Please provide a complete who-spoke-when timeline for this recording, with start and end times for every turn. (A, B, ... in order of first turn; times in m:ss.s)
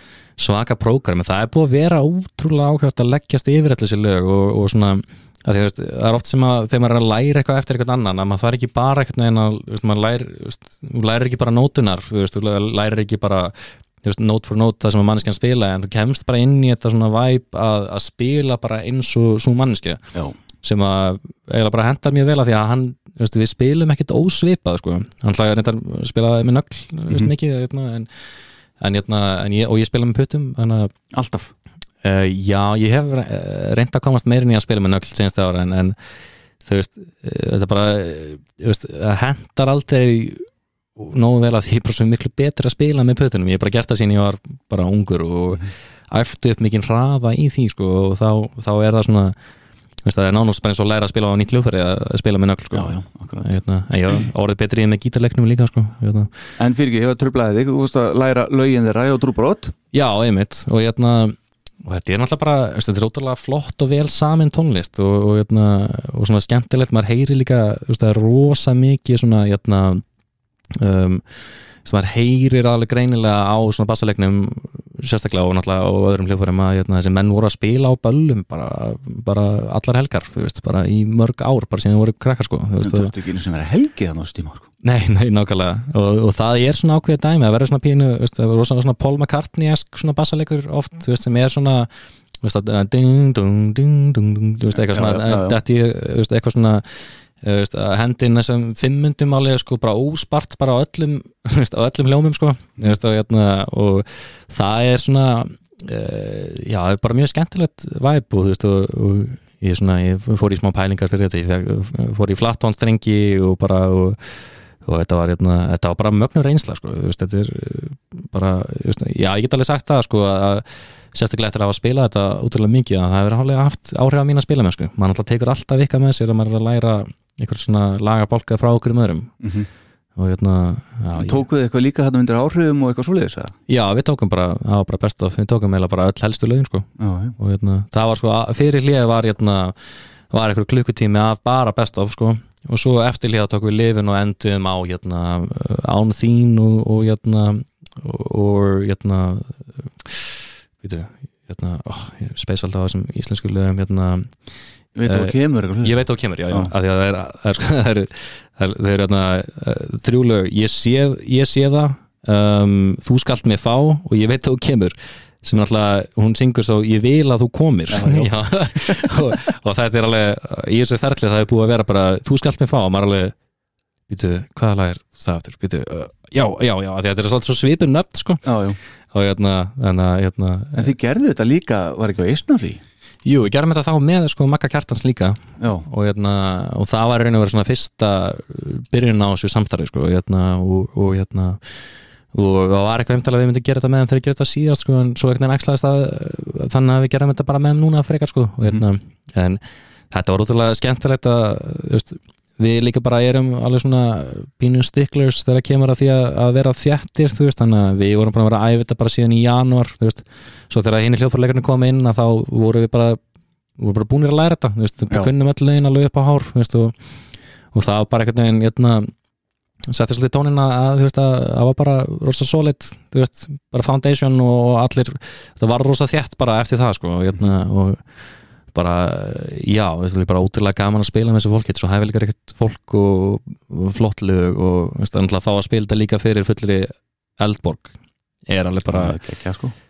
0:00.4-0:20.0 A
0:20.6-0:28.1 A
0:28.8-0:30.9 A
0:31.1-0:31.5 B
0:32.0-0:36.0 A
0:36.6-0:49.4 A
0:50.0-0:56.3 A
0:52.7-0:53.5 B
0:56.6-0:59.7 B
0:59.9-1:10.0 A
1:10.7-1:11.2 A
1:11.8-1:23.1 A
1:22.8-1:24.7 B
1:24.8-1:31.9 A
1:32.4-1:54.2 A
1:34.7-1:35.6 B
1:54.8-2:09.3 A
2:09.4-2:09.7 B
2:10.2-2:11.4 A
2:11.1-2:13.5 B
2:13.7-2:19.8 A
2:17.0-2:17.4 B
2:20.3-2:34.4 A
2:34.9-2:36.0 B
2:35.1-2:53.3 A
2:47.9-2:49.1 B
2:54.1-2:58.4 A
2:58.4-2:58.8 B
2:59.1-3:00.9 A
3:00.7-3:02.8 B
3:03.2-3:11.6 A
3:05.6-3:05.8 B
3:12.3-3:33.2 A
3:33.8-3:36.9 A
3:37.7-3:39.1 A
3:39.9-3:48.0 A
3:48.7-3:57.9 A
3:58.5-3:59.2 A
3:58.9-3:59.7 B